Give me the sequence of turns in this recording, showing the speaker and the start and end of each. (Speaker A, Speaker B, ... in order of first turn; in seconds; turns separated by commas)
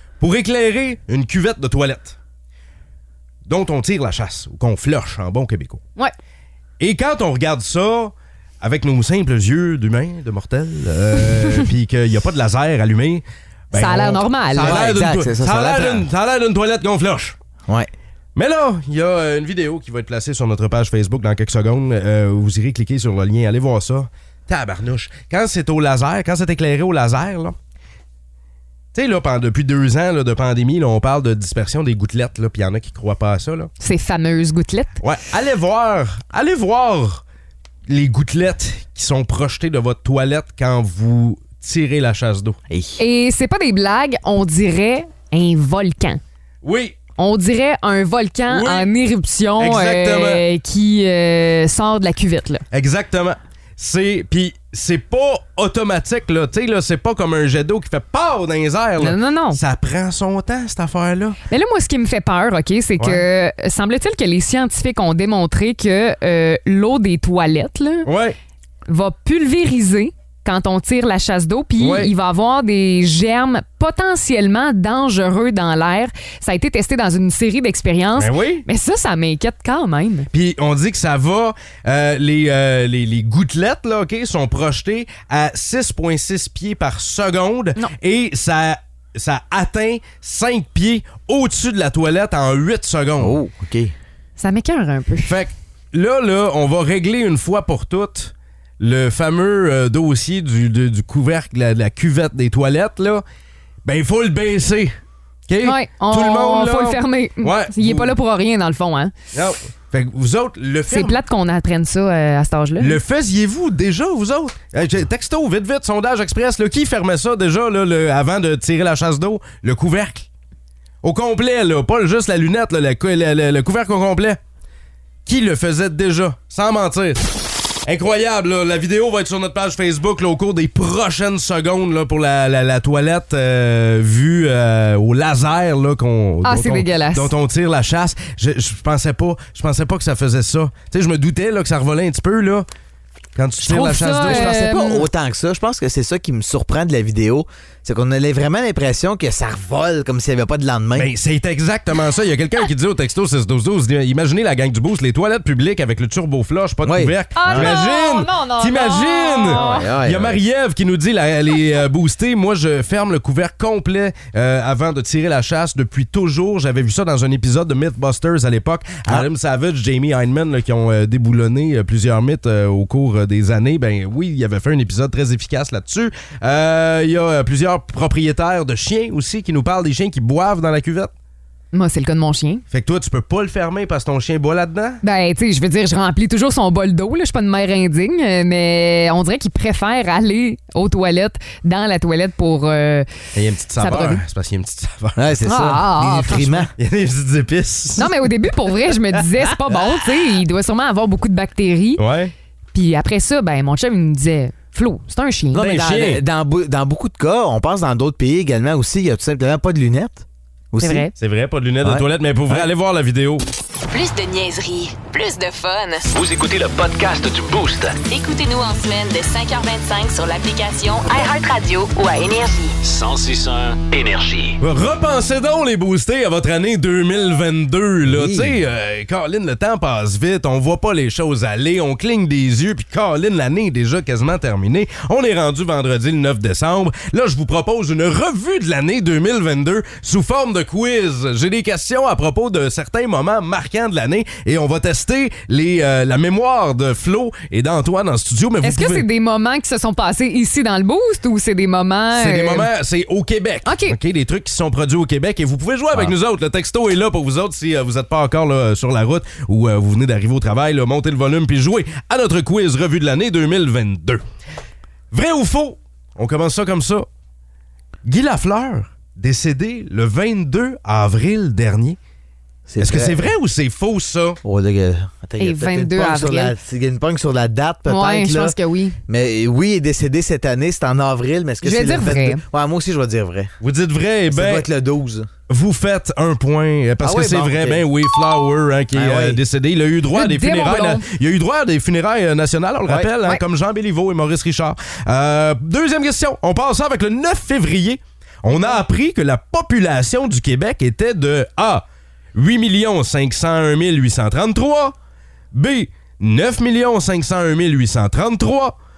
Speaker A: 0.2-2.2, Speaker A: 3.5-5.8, Speaker A: 6.8-17.3, Speaker B: 13.7-14.8, Speaker C: 14.6-16.1, Speaker A: 18.4-27.5, Speaker A: 28.9-33.7, Speaker B: 33.8-34.9, Speaker A: 35.0-37.2, Speaker A: 37.9-42.6, Speaker C: 42.7-43.0, Speaker B: 43.0-46.2, Speaker A: 46.6-46.9, Speaker B: 47.2-52.6, Speaker A: 48.5-48.9, Speaker A: 49.6-50.4, Speaker A: 52.7-61.4, Speaker B: 59.0-59.6, Speaker B: 61.5-68.1, Speaker A: 63.0-63.2, Speaker A: 68.0-68.3, Speaker B: 68.9-80.3, Speaker A: 71.8-72.1, Speaker A: 78.2-78.6, Speaker A: 80.3-93.4, Speaker C: 93.2-93.9, Speaker B: 94.4-95.3, Speaker A: 95.2-103.2, Speaker A: 103.8-105.0, Speaker A: 105.5-108.1, Speaker B: 105.6-109.1, Speaker A: 109.3-111.2, Speaker B: 110.9-113.0, Speaker A: 112.8-120.3, Speaker A: 121.0-124.4, Speaker A: 125.2-127.2, Speaker A: 127.8-142.7, Speaker B: 136.4-137.3, Speaker A: 143.3-144.6, Speaker B: 143.6-145.1, Speaker C: 144.2-151.1, Speaker A: 150.9-181.1, Speaker C: 156.8-157.8, Speaker B: 157.3-159.9, Speaker C: 159.5-160.4, Speaker B: 181.7-182.6, Speaker A: 182.7-185.0, Speaker B: 185.0-193.1, Speaker A: 193.3-195.3, Speaker B: 193.8-194.2, Speaker C: 195.2-196.7, Speaker B: 195.4-196.6, Speaker A: 196.8-198.1, Speaker B: 198.0-202.0, Speaker A: 202.0-202.3, Speaker B: 202.7-205.7, Speaker C: 205.5-211.1, Speaker A: 205.6-206.2, Speaker B: 210.8-211.1, Speaker A: 211.2-213.4, Speaker C: 211.8-212.7, Speaker D: 213.9-216.1, Speaker E: 216.1-218.0, Speaker D: 218.0-222.8, Speaker E: 222.8-224.6, Speaker A: 224.6-249.0, Speaker C: 228.0-228.6, Speaker B: 248.6-252.7, Speaker A: 252.1-264.2, Speaker B: 253.6-254.0, Speaker A: 265.1-267.1, Speaker A: 268.0-272.0, Speaker C: 272.7-273.3, Speaker A: 272.8-274.4, Speaker C: 274.4-278.5, Speaker B: 275.4-276.5, Speaker B: 277.9-279.0, Speaker C: 279.1-283.5, Speaker B: 281.6-282.4, Speaker A: 283.6-284.6, Speaker C: 284.3-285.3, Speaker A: 285.5-304.9, Speaker C: 287.0-287.8, Speaker C: 288.9-289.4, Speaker B: 290.1-291.0, Speaker A: 305.5-308.7